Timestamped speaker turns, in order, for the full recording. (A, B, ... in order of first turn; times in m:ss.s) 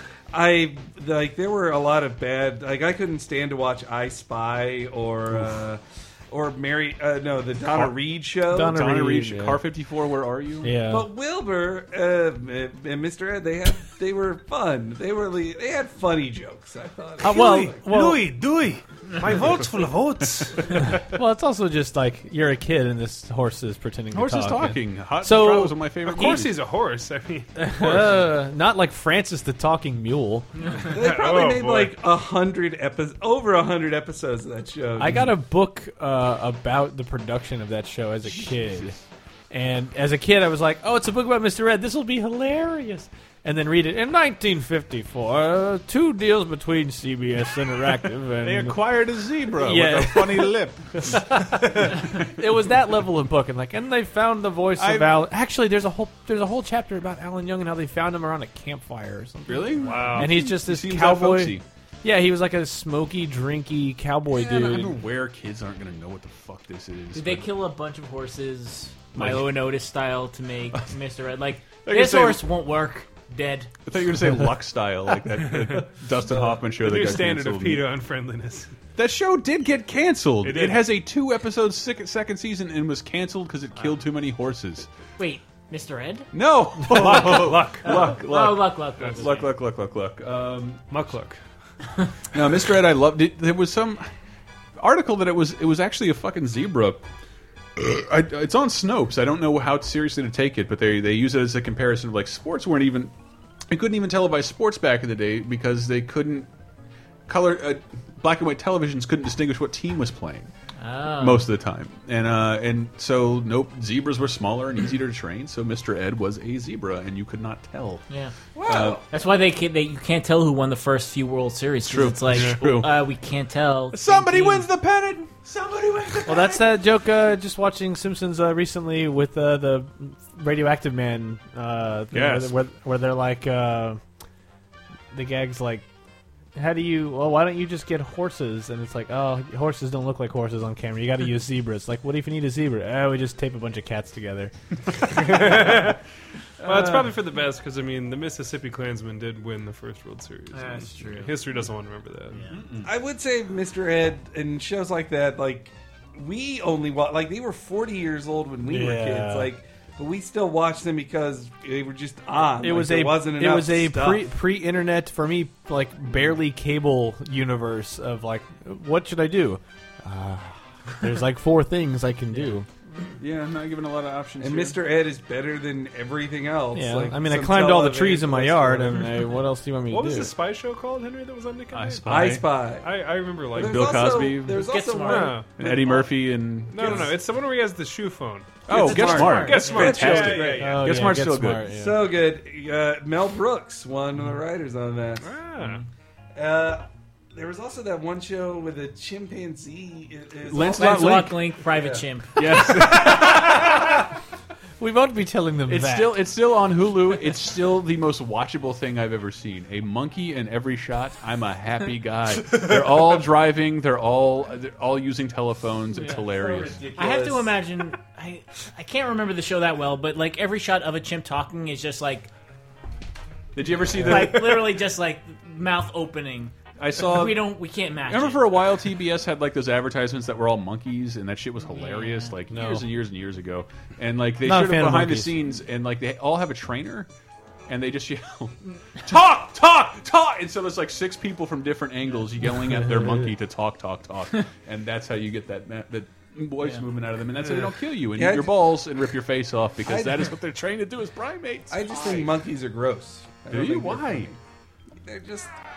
0:00.3-0:08.8 A
0:07.7-0:08.0 B
0:08.5-0:09.6 C
0:08.5-0:10.8 B
0:10.6-0:11.1 C
0:10.9-0:17.9 A
0:17.2-0:18.3 C
0:17.2-0:20.9 D
0:20.9-0:25.8 C
0:24.1-0:26.5 B
0:26.0-0:28.1 D
0:27.5-0:30.5 C
0:30.8-0:31.9 D
0:30.8-0:35.3 A
0:35.0-0:39.0 C
0:39.5-0:48.8 C
0:48.4-0:51.2 B
0:49.6-1:05.0 C
0:54.8-0:55.3 B
0:59.5-1:01.6 B
0:59.8-1:00.4 D
1:04.3-1:07.5 B
1:07.1-1:13.7 E
1:09.1-1:09.5 B
1:11.8-1:12.4 B
1:13.9-1:17.8 B
1:15.5-1:15.8 D
1:16.3-1:16.6 A
1:16.7-1:18.7 D
1:19.0-1:24.9 B
1:20.4-1:20.8 D
1:25.2-1:26.3 E
1:26.3-1:30.9 B
1:26.9-1:28.1 D
1:27.8-1:29.5 E
1:30.9-1:31.4 D
1:32.3-1:34.1 B
1:34.8-1:37.0 B
1:37.8-1:43.1 B
1:43.7-1:46.5 B
1:47.3-1:50.5 B
1:50.8-1:51.5 E
1:51.2-1:58.0 B
1:58.1-1:58.3 E
1:58.6-1:59.0 A
1:58.6-1:59.0 B
1:59.1-2:04.7 E
2:01.8-2:03.0 B
2:03.9-2:06.7 B
2:06.2-2:14.0 C
2:12.1-2:12.6 B
2:15.1-2:15.9 C
2:16.5-2:24.5 C
2:25.1-2:26.0 D
2:26.6-2:32.4 D
2:26.6-2:27.0 B
2:30.8-2:31.1 E
2:32.5-2:32.9 B
2:32.8-2:44.3 A
2:38.6-2:39.5 C
2:42.6-2:52.7 C
2:53.2-2:54.8 B
2:54.4-2:59.3 A
2:56.7-3:00.3 C
2:59.9-3:04.2 D
3:01.7-3:02.5 B
3:02.0-3:07.2 A
3:03.5-3:04.7 B
3:04.5-3:05.4 E
3:05.0-3:05.5 D
3:05.6-3:07.1 B
3:06.7-3:10.8 D
3:08.7-3:10.8 A
3:08.7-3:11.7 B
3:08.8-3:10.1 E
3:10.5-3:12.0 C
3:11.7-3:15.3 A
3:15.2-3:15.8 D
3:16.3-3:22.0 A
3:20.4-3:21.4 B
3:20.6-3:23.0 E
3:22.4-3:23.7 B
3:24.8-3:26.2 C
3:25.7-3:36.9 B
3:36.3-3:37.5 A
3:36.9-3:42.3 E
3:43.5-3:44.7 B
3:43.9-3:48.6 E
3:46.8-3:47.5 B
3:48.0-3:57.1 B
3:51.6-3:52.4 E
3:52.5-3:52.9 C
3:54.4-3:55.4 C
3:57.7-4:12.4 B
4:08.1-4:08.7 A
4:09.9-4:10.3 A
4:11.7-4:14.4 A
4:13.5-4:14.3 B
4:15.0-4:15.5 A